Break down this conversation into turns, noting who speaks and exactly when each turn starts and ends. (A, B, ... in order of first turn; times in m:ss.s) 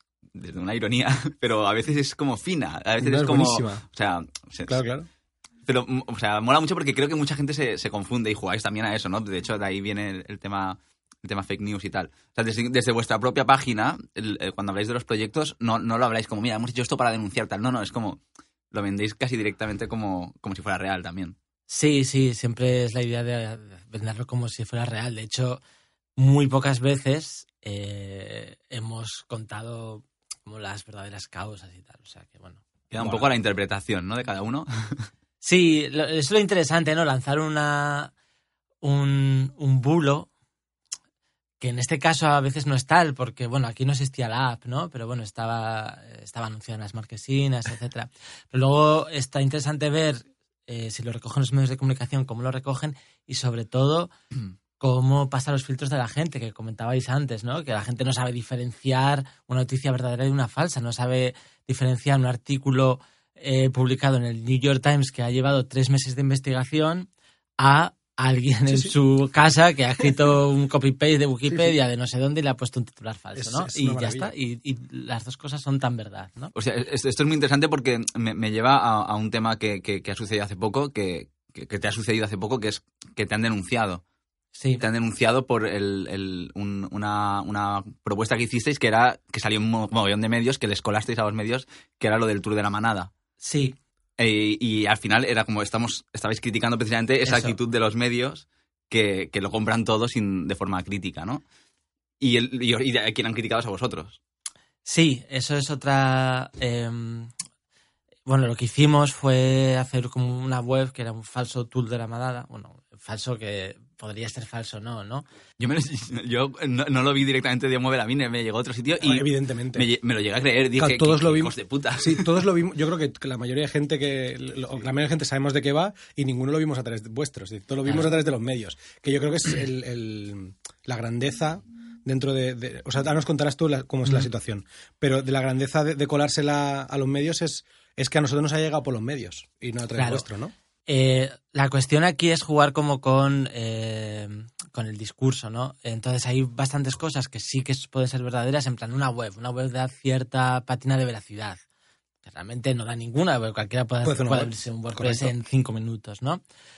0:00.4-0:04.8 A
0:03.0-0:03.8 B
0:04.7-0:05.1 B
0:05.7-0:18.2 A
0:18.7-0:21.4 A
0:21.7-0:25.6 C
0:26.2-0:32.6 C
0:32.9-0:35.1 A
0:33.0-0:33.3 B
0:35.4-0:38.1 C
0:38.8-0:40.3 C
0:41.6-0:54.1 C
0:54.8-1:07.1 C
1:07.6-1:16.5 C
1:08.7-1:08.9 B
1:11.5-1:11.8 B
1:13.4-1:14.3 B
1:16.6-1:24.0 A
1:24.6-1:24.8 C
1:24.8-1:33.1 A
1:33.4-1:33.8 C
1:34.2-1:41.4 A
1:37.2-1:37.6 C
1:42.2-1:44.2 A
1:44.8-1:47.3 C
1:48.3-1:55.3 C
1:55.6-2:02.3 A
1:59.0-1:59.9 B
2:00.8-2:20.5 B
2:20.0-2:20.2 C
2:20.9-2:31.6 C
2:32.2-2:36.4 C
2:34.0-2:35.3 B